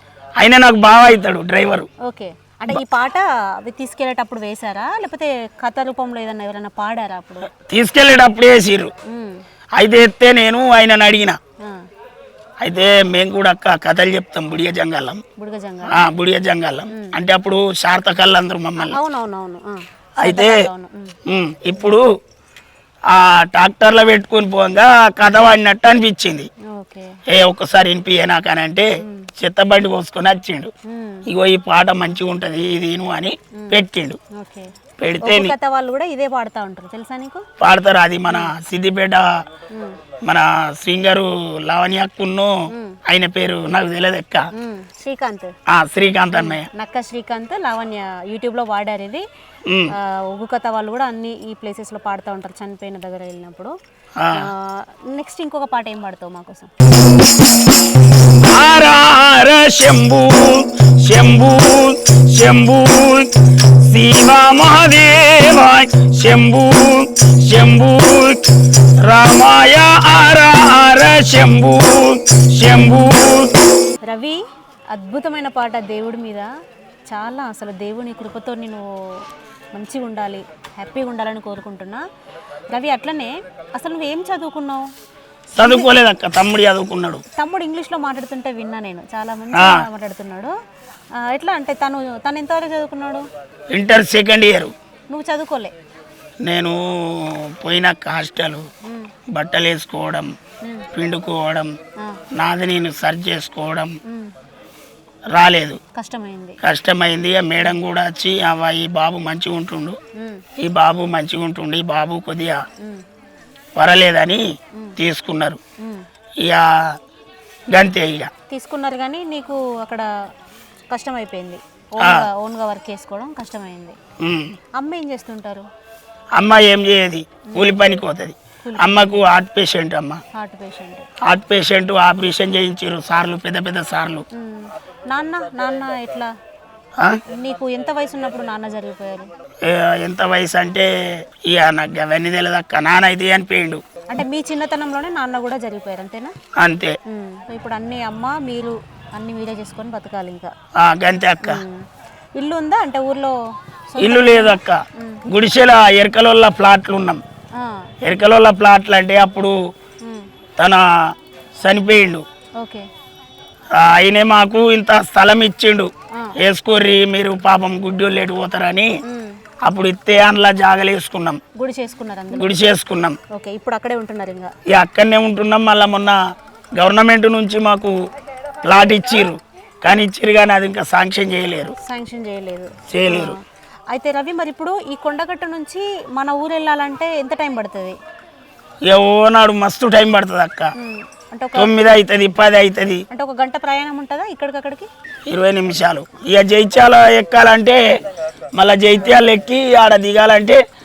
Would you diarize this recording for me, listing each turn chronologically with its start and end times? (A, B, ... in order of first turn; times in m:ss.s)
0:00.4-0:01.9 A
0:02.0-0:07.5 B
0:07.7-0:08.9 A
0:09.1-0:09.4 B
0:09.8-0:11.4 A
0:12.6-0:15.2 A
0:15.4-0:16.0 B
0:15.9-0:19.0 A
0:18.8-0:21.1 B
0:20.2-0:20.6 A
0:21.3-0:22.0 A
0:23.1-0:26.5 A
0:26.7-0:27.2 B
0:27.3-0:30.7 A
0:29.0-0:29.3 B
0:30.9-0:31.2 B
0:31.3-0:34.2 A
0:34.3-0:37.4 B
0:35.0-0:35.5 A
0:37.6-0:39.4 A
0:38.3-0:38.5 B
0:39.7-0:40.0 B
0:40.2-0:44.4 A
0:42.7-0:43.0 B
0:44.6-0:45.5 B
0:45.7-0:46.7 A
0:46.3-0:49.2 B
0:49.7-0:49.9 A
0:50.0-0:53.7 B
0:54.2-0:54.5 A
0:54.3-0:56.7 B
0:58.3-1:13.5 A
1:14.1-1:14.4 B
1:14.9-1:16.5 B
1:17.1-1:22.0 B
1:22.7-1:24.9 B
1:25.6-1:25.9 B
1:25.6-1:27.2 A
1:27.4-1:30.5 B
1:29.5-1:29.8 A
1:31.2-1:33.3 B
1:33.7-1:34.7 A
1:35.1-1:35.7 B
1:36.4-1:38.7 A
1:38.8-1:39.1 B
1:39.3-1:40.3 A
1:40.9-1:41.7 A
1:42.4-1:44.0 A
1:44.1-1:44.3 B
1:45.3-1:45.8 A
1:46.0-1:46.6 B
1:46.6-1:50.0 A
1:50.2-1:50.4 B
1:50.6-1:52.6 A
1:53.8-1:54.4 A
1:55.0-1:55.6 A
1:57.7-1:58.3 A
1:58.5-2:00.1 B
2:00.9-2:04.0 B
2:04.2-2:04.6 A
2:04.8-2:05.7 B
2:06.4-2:10.2 A
2:08.6-2:09.2 B
2:10.3-2:11.1 B
2:11.3-2:14.2 A
2:14.3-2:16.3 B
2:17.3-2:19.3 B
2:19.6-2:20.9 A
2:21.5-2:23.8 A
2:24.1-2:26.3 B
2:26.6-2:27.0 A
2:27.1-2:30.5 B
2:30.8-2:31.6 A
2:31.4-2:31.9 B
2:32.4-2:33.4 B
2:33.9-2:35.2 B
2:34.0-2:37.2 A
2:37.6-2:37.9 B
2:38.0-2:39.5 A
2:40.6-2:40.8 A
2:41.6-2:42.2 A
2:42.6-2:42.9 B
2:43.7-2:48.9 A
2:49.0-2:49.4 B
2:49.6-2:51.4 A
2:51.6-2:52.6 B
2:52.3-2:53.2 A
2:53.3-2:54.5 B
2:54.7-2:56.2 A
2:56.8-2:58.0 A
2:58.6-3:01.8 A
3:01.8-3:03.4 B
3:02.9-3:03.4 A
3:03.9-3:08.0 B
3:08.9-3:10.7 A
3:10.8-3:11.9 B
3:11.6-3:13.0 A
3:13.1-3:14.9 B
3:15.3-3:17.8 A
3:18.5-3:20.6 A